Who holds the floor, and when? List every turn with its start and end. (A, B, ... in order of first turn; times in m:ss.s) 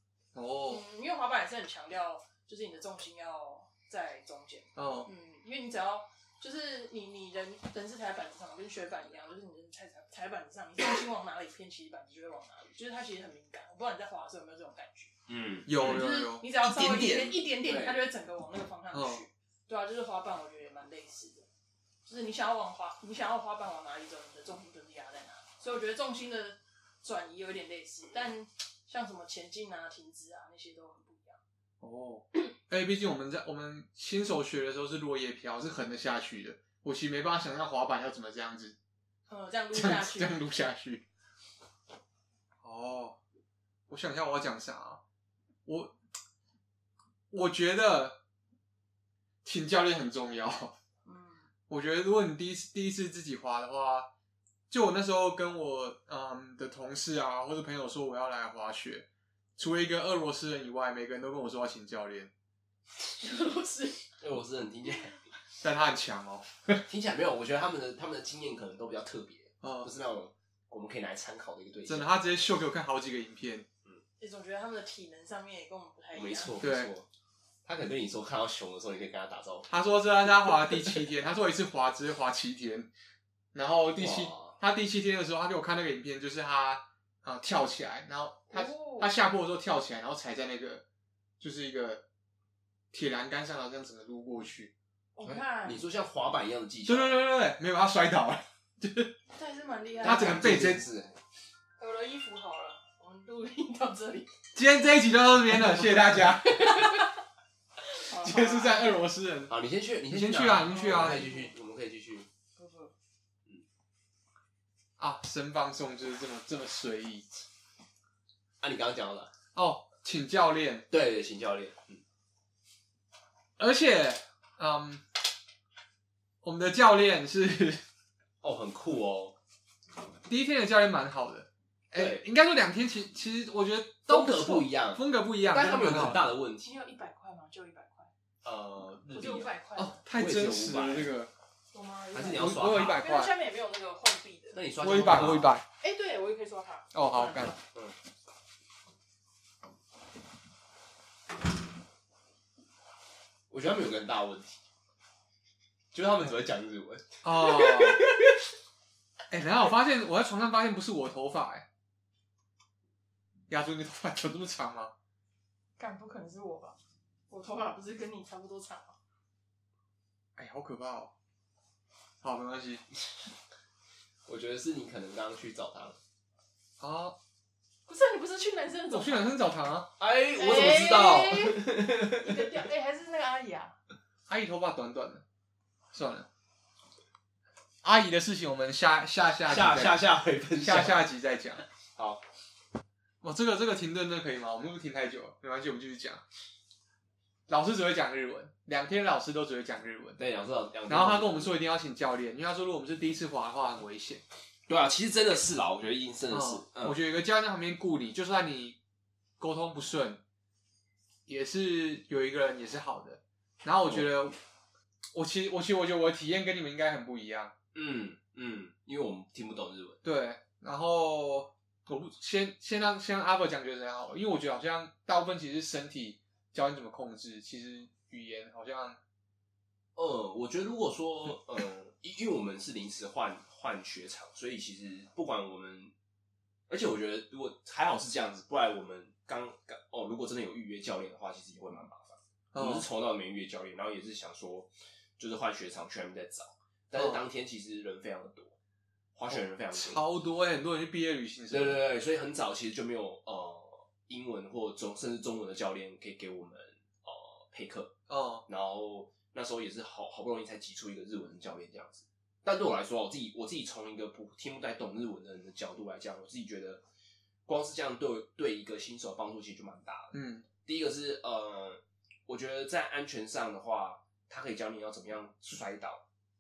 0:00.3-0:00.8 A
0:00.7-0:15.1 B
0:04.8-0:05.1 A
0:15.3-0:16.1 C
0:15.7-0:16.5 A
0:15.8-0:21.5 B
0:16.6-0:18.0 C
0:18.9-0:19.2 A
0:22.1-0:31.4 B
0:31.8-0:38.8 A
0:39.3-0:40.4 B
0:39.7-0:41.0 A
0:42.6-0:43.2 A
0:43.9-0:45.0 A
0:45.7-0:45.9 A
0:47.3-0:48.2 A
0:49.4-0:50.8 A
0:51.0-0:51.5 B
0:51.7-0:54.1 A
0:54.7-0:59.1 A
0:59.6-1:02.3 A
1:03.2-1:04.1 B
1:04.2-1:05.2 C
1:05.6-1:06.8 A
1:06.9-1:12.1 C
1:09.6-1:09.9 A
1:11.9-1:13.7 A
1:14.2-1:16.6 B
1:16.1-1:17.1 C
1:16.6-1:16.9 A
1:17.6-1:19.7 C
1:19.7-1:22.9 A
1:20.5-1:21.0 C
1:23.5-1:30.8 A
1:24.0-1:24.6 C
1:28.5-1:29.1 B
1:31.4-1:32.0 A
1:32.9-1:34.7 A
1:35.2-1:35.8 B
1:35.3-1:37.2 C
1:36.9-1:39.2 A
1:39.3-1:40.4 B
1:40.0-1:40.8 A
1:40.0-1:41.2 C
1:41.8-1:44.3 B
1:44.6-1:47.0 A
1:46.4-1:47.1 B
1:47.9-1:49.0 B
1:48.1-1:49.5 A
1:49.5-1:52.3 C
1:50.1-1:51.3 A
1:50.7-1:51.5 B
1:52.6-1:52.9 B
1:55.0-1:57.3 A
1:58.6-1:59.3 C
1:59.6-2:00.9 A
2:00.9-2:02.0 C
2:03.6-2:05.1 A
2:06.4-2:07.8 A
2:08.4-2:09.4 C
2:10.2-2:16.2 A
2:12.0-2:12.3 C
2:14.1-2:16.7 C
2:15.6-2:18.1 B
2:18.4-2:19.5 C
2:19.1-2:20.0 B
2:19.8-2:21.3 A
2:20.1-2:21.1 C
2:21.7-2:24.6 B
2:22.1-2:23.0 C
2:22.3-2:23.3 A
2:24.5-2:25.6 C
2:24.8-2:25.6 A
2:25.8-2:27.6 B
2:26.9-2:27.5 A
2:33.5-2:34.6 C
2:35.9-2:38.4 C
2:37.2-2:38.0 A
2:39.3-2:41.7 A
2:43.5-2:44.9 A
2:45.8-2:46.8 B
2:47.3-2:49.0 B
2:50.4-2:51.1 A
2:52.2-2:52.8 A
2:54.3-2:56.0 C
2:56.8-2:57.2 A
2:57.9-2:59.4 B
2:58.9-2:59.9 A
3:00.0-3:02.5 C
3:00.4-3:03.8 B
3:04.3-3:05.2 A
3:05.9-3:06.3 A
3:07.8-3:11.6 A
3:09.5-3:11.0 C
3:12.0-3:12.2 C
3:13.2-3:16.2 A
3:17.5-3:20.2 A
3:20.2-3:21.5 C
3:20.9-3:24.2 A
3:24.7-3:27.0 C
3:26.3-3:28.8 A
3:29.4-3:30.2 A
3:31.3-3:34.4 A
3:35.1-3:37.5 A
3:37.7-3:40.0 C
3:40.0-3:49.0 A
3:50.0-3:55.9 C
3:56.7-4:08.6 C
4:02.5-4:02.9 A
4:07.0-4:07.2 A
4:09.2-4:10.0 C
4:09.3-4:11.8 A
4:11.5-4:17.9 C
4:18.1-4:18.5 A
4:18.5-4:26.8 C
4:27.5-4:36.0 C
4:30.1-4:30.5 A